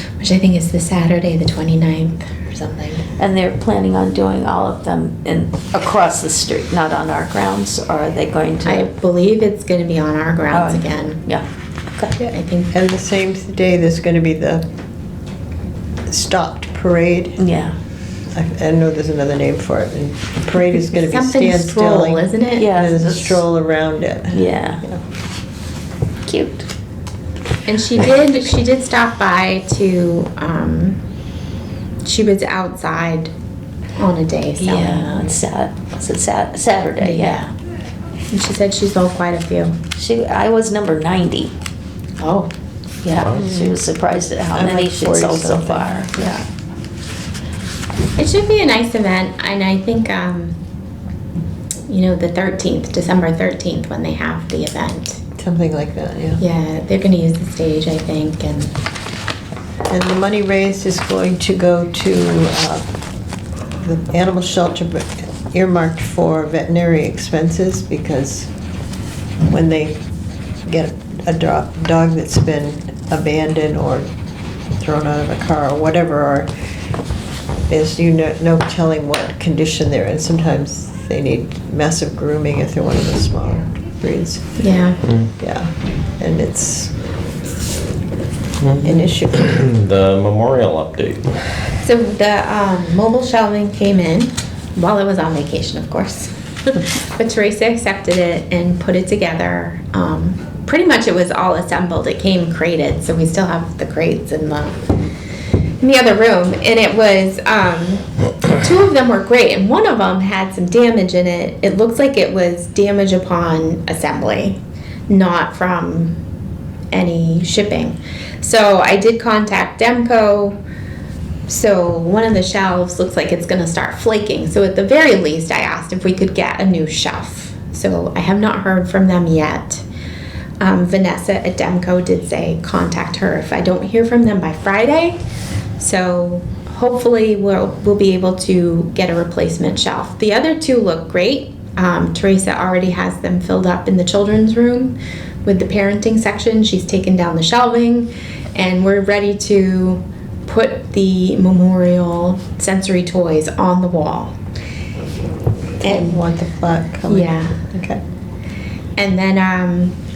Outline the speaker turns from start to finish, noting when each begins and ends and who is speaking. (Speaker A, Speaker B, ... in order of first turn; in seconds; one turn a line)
Speaker A: 0.2-2.3
Speaker B: 2.5-3.0
Speaker C: 3.2-8.8
Speaker A: 8.6-11.2
Speaker C: 10.5-11.4
Speaker B: 12.2-14.6
Speaker A: 12.2-12.7
Speaker B: 16.1-17.4
Speaker C: 17.4-17.7
Speaker B: 18.3-25.0
Speaker A: 21.0-22.7
Speaker C: 22.6-23.4
Speaker C: 24.3-24.8
Speaker C: 26.2-26.7
Speaker A: 27.6-31.0
Speaker A: 32.0-33.3
Speaker A: 34.0-35.4
Speaker C: 34.6-37.4
Speaker A: 37.0-37.5
Speaker A: 38.3-39.8
Speaker C: 40.0-41.5
Speaker A: 42.2-42.5
Speaker C: 43.0-46.4
Speaker D: 43.1-43.6
Speaker B: 44.5-46.4
Speaker A: 48.2-50.6
Speaker A: 51.9-55.2
Speaker B: 55.4-56.4
Speaker A: 56.4-58.8
Speaker B: 59.9-62.9
Speaker B: 63.8-68.5
Speaker B: 69.4-70.0
Speaker B: 70.7-74.1
Speaker B: 74.8-76.5
Speaker B: 77.7-84.5
Speaker A: 84.6-85.0
Speaker D: 85.0-85.3
Speaker B: 85.4-86.9
Speaker D: 88.6-91.3
Speaker B: 88.8-89.4
Speaker A: 91.8-104.8
Speaker A: 105.8-116.2
Speaker A: 116.9-120.6
Speaker A: 121.5-129.8
Speaker A: 130.6-135.2
Speaker A: 135.8-154.3
Speaker B: 155.8-158.0
Speaker A: 155.8-156.2
Speaker A: 157.1-157.6
Speaker A: 159.0-159.9